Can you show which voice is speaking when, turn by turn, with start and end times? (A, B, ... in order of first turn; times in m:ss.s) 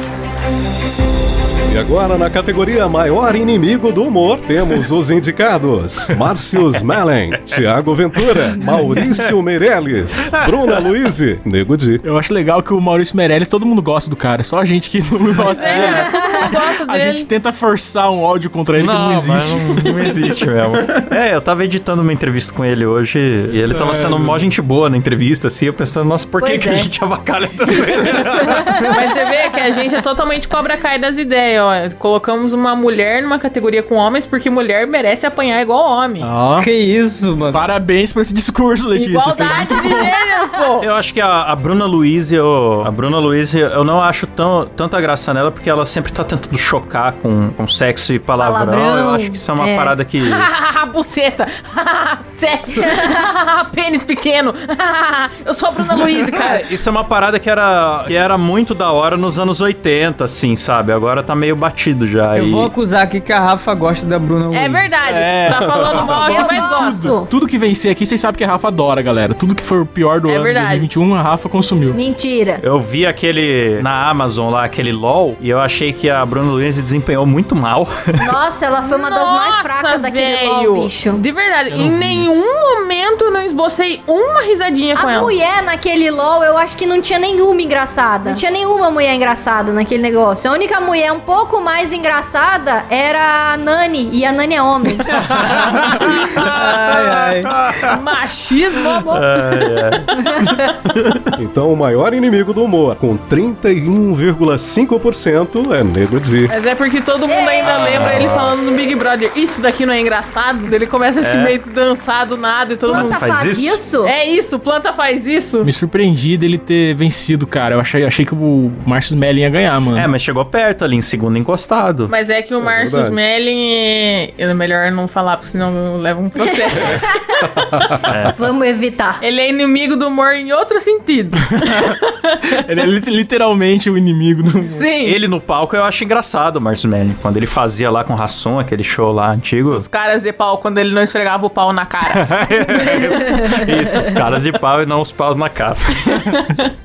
0:01.7-0:12.0 A
0:12.0-0:20.0 B
0:15.4-0:17.3 C
0:15.7-0:16.6 D
0:18.8-0:29.0 E
0:23.7-0:24.5 B
0:26.4-0:26.9 D
0:28.0-0:28.9 D
0:28.9-0:36.3 C
0:36.2-0:36.7 B
0:36.6-0:37.6 F
0:37.5-0:40.1 B
0:39.0-0:40.9 C
0:40.8-0:50.5 E
0:48.4-0:50.0 D
0:50.2-0:56.7 C
0:52.8-0:53.2 D
0:56.3-1:02.7 E
1:02.4-1:04.9 F
1:04.5-1:07.1 C
1:05.0-1:12.0 B
1:06.0-1:07.3 D
1:10.3-1:10.9 C
1:11.9-1:12.6 D
1:12.6-1:18.3 E
1:18.2-1:21.2 D
1:18.8-1:25.3 C
1:21.7-1:22.3 B
1:25.0-1:35.4 D
1:35.4-1:37.5 F
1:36.6-1:39.4 C
1:39.1-1:40.1 E
1:41.4-1:46.5 A
1:46.5-1:53.2 C
1:47.3-1:48.2 D
1:47.7-1:48.5 E
1:51.2-1:51.6 E
1:52.9-1:54.1 D
1:52.9-1:53.8 E
1:54.0-1:55.7 C
1:55.6-2:00.1 B
2:00.0-2:02.1 E
2:02.1-2:07.1 C
2:02.6-2:03.2 A
2:06.5-2:07.1 D
2:08.1-2:08.4 E
2:08.3-2:09.2 D
2:09.2-2:12.4 C
2:11.5-2:12.0 B
2:12.5-2:14.9 B
2:14.7-2:15.2 C
2:15.0-2:19.8 E
2:19.7-2:22.3 C
2:22.1-2:26.4 E